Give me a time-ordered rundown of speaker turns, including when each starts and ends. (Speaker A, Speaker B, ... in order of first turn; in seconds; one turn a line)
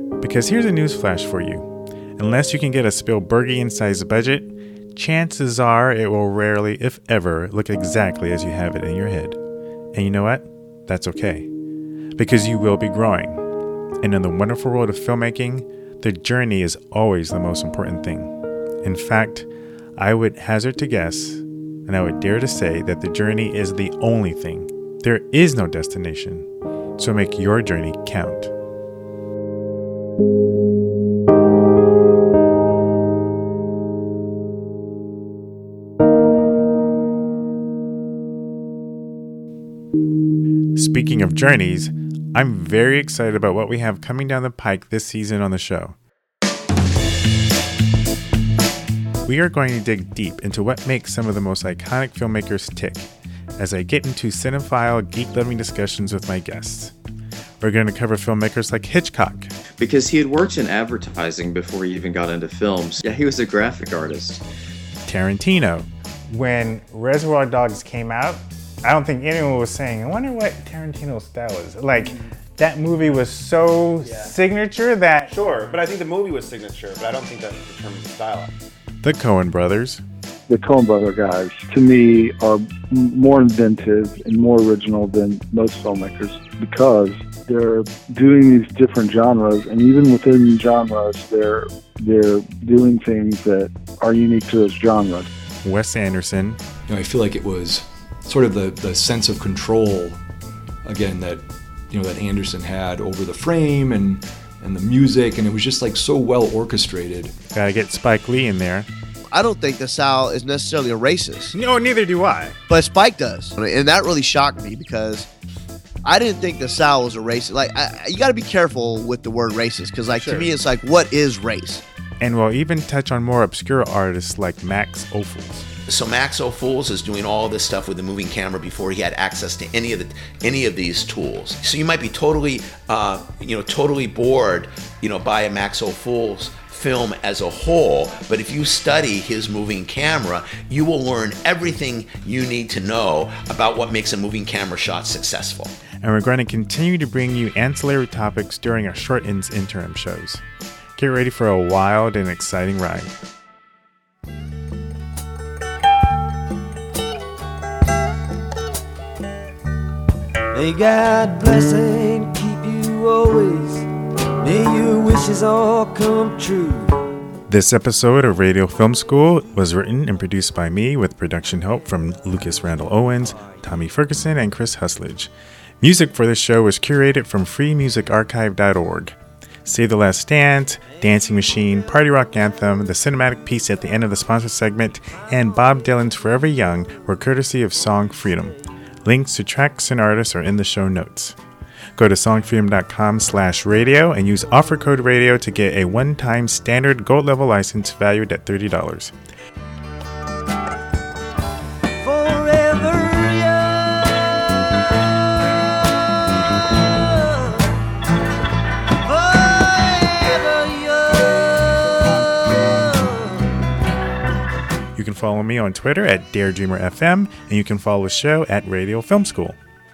Speaker A: 0.2-9.4
Speaker A: 9.9-11.5
Speaker A: 12.2-13.4
Speaker A: 14.0-28.5
Speaker A: 40.7-46.0
Speaker A: 49.2-56.9
Speaker A: 57.6-59.5
Speaker B: 59.8-64.4
Speaker A: 65.0-75.3
Speaker C: 74.0-74.4
Speaker C: 75.3-78.5
Speaker A: 79.0-80.0
Speaker D: 80.5-95.3
Speaker A: 95.6-96.6
Speaker E: 96.9-100.2
Speaker E: 100.8-107.3
Speaker A: 107.5-108.9
Speaker F: 109.3-111.5
Speaker A: 111.5-112.5
Speaker F: 112.7-115.3
Speaker F: 116.0-121.8
Speaker A: 120.1-120.5
Speaker A: 122.2-125.7
Speaker G: 125.8-145.7
Speaker A: 146.0-150.4
Speaker A: 151.0-153.1
Speaker H: 160.5-163.9
Speaker H: 164.4-167.0
Speaker A: 167.5-175.3
Speaker A: 175.8-191.3
Speaker A: 191.9-199.1
Speaker H: 202.0-204.2
Speaker H: 206.5-207.8
Speaker H: 209.0-213.6
Speaker A: 214.9-219.6